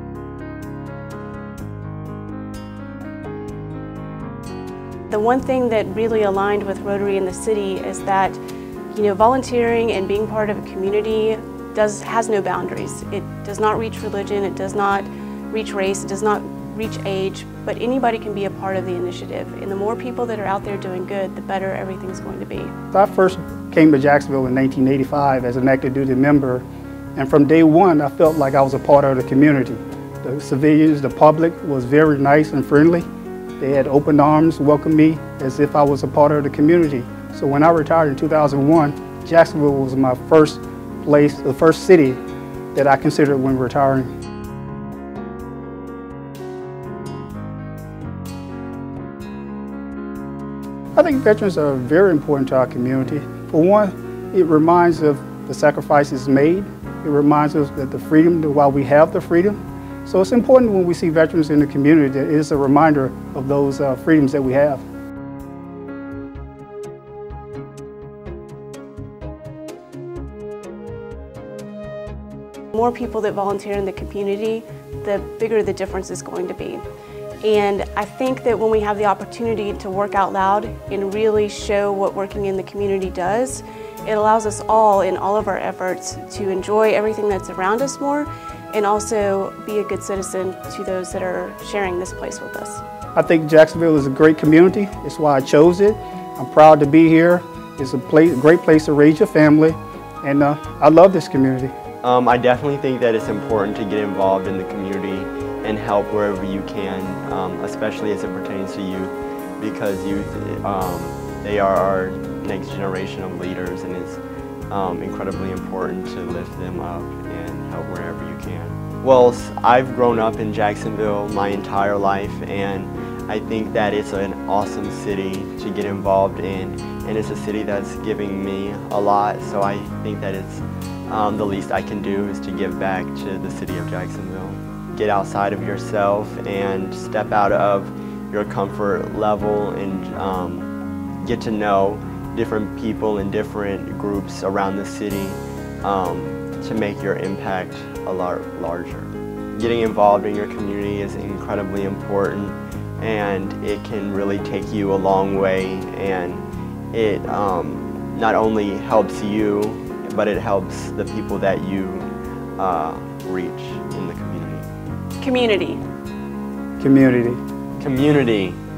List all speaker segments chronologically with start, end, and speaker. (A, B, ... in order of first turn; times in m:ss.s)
0:05.1-0:08.4 A
0:08.9-0:22.7 A
0:22.9-0:26.6 B
0:27.2-0:33.1 B
0:33.6-0:42.2 B
0:42.8-0:44.1 B
0:51.0-1:04.8 B
1:12.7-1:16.8 A
1:17.4-1:32.8 A
1:33.2-1:41.7 B
1:42.0-2:20.7 C
2:21.2-2:44.7 C
2:45.2-2:45.8 A
2:46.8-2:47.4 B
2:47.8-2:48.6 C